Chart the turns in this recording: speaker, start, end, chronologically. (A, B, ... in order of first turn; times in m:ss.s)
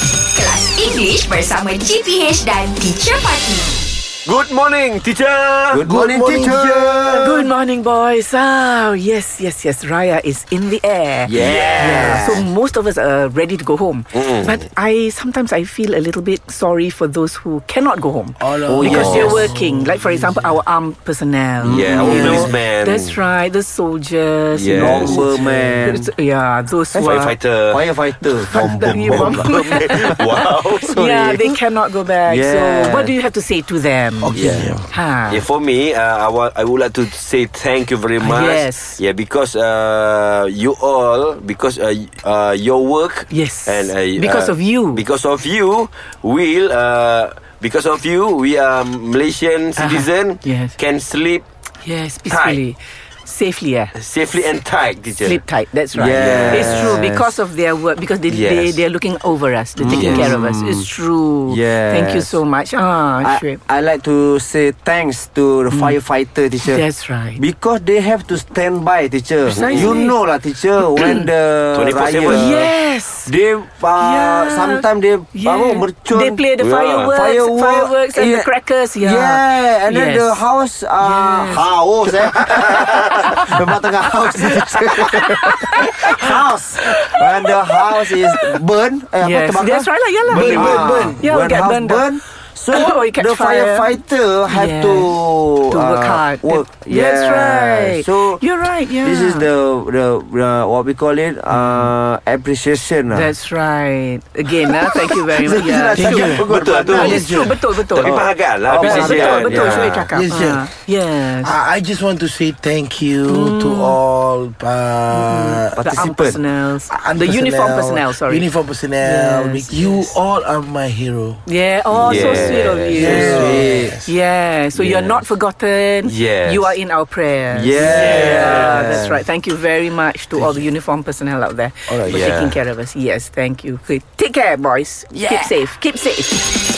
0:00.3-0:03.7 A
0:04.2-0:05.9 B
0:05.7-0:07.4 C
0:05.8-0:07.2 D
0:07.2-0:27.4 E
0:11.2-0:12.4 C
0:11.3-0:12.4 B
0:14.1-0:14.6 B
0:18.4-0:20.6 D
0:18.7-0:19.5 C
0:18.9-0:19.3 B
0:21.6-0:23.2 B
0:21.6-0:22.5 C
0:21.8-0:22.6 D
0:24.5-0:25.3 B
0:24.7-0:26.1 C
0:26.9-0:27.8 B
0:27.0-0:30.2 C
0:28.5-0:35.5 E
0:28.5-0:31.3 B
0:31.0-0:31.3 C
0:32.3-0:33.2 C
0:34.2-0:34.9 D
0:34.3-0:34.7 B
0:34.3-0:34.7 C
0:35.3-0:51.5 B
0:38.2-0:39.0 E
0:43.3-0:45.0 E
0:49.8-0:50.8 E
0:51.8-0:54.0 E
0:52.3-0:52.6 B
0:54.0-0:55.4 B
0:55.2-1:03.6 E
0:55.9-0:57.2 C
0:56.1-0:57.1 B
0:58.3-0:58.8 B
0:59.8-1:00.9 C
0:59.8-1:00.4 B
1:01.5-1:02.4 C
1:03.2-1:06.8 C
1:05.7-1:06.0 E
1:06.6-1:07.4 E
1:07.4-1:12.7 C
1:09.4-1:10.2 E
1:09.6-1:10.0 B
1:10.9-1:11.3 E
1:11.7-1:12.7 B
1:12.3-1:13.3 E
1:13.2-1:16.5 C
1:14.0-1:20.4 E
1:16.6-1:17.1 B
1:17.0-1:38.4 C
1:21.0-1:21.7 E
1:25.1-1:26.3 E
1:26.9-1:27.5 E
1:28.0-1:28.6 E
1:29.2-1:32.2 E
1:30.3-1:31.2 D
1:30.4-1:30.9 B
1:32.7-1:33.9 E
1:34.5-1:39.5 E
1:39.0-1:43.3 C
1:41.5-1:41.9 E
1:43.1-1:51.6 E
1:45.4-1:47.2 C
1:45.4-1:47.6 D
1:46.4-1:47.3 B
1:47.8-1:50.1 B
1:48.0-1:50.1 C
1:50.1-1:50.7 D
1:51.4-1:56.0 D
1:53.3-1:54.0 E
1:55.1-1:58.5 E
1:55.8-1:56.4 C
1:56.9-2:01.4 D
1:59.0-2:00.1 E
2:01.5-2:16.4 E
2:02.0-2:03.1 B
2:02.0-2:04.0 C
2:02.1-2:04.1 D
2:06.0-2:06.8 B
2:07.5-2:09.2 C
2:07.8-2:08.8 B
2:08.0-2:08.4 D
2:11.9-2:12.4 D
2:12.0-2:12.6 B
2:15.1-2:15.6 A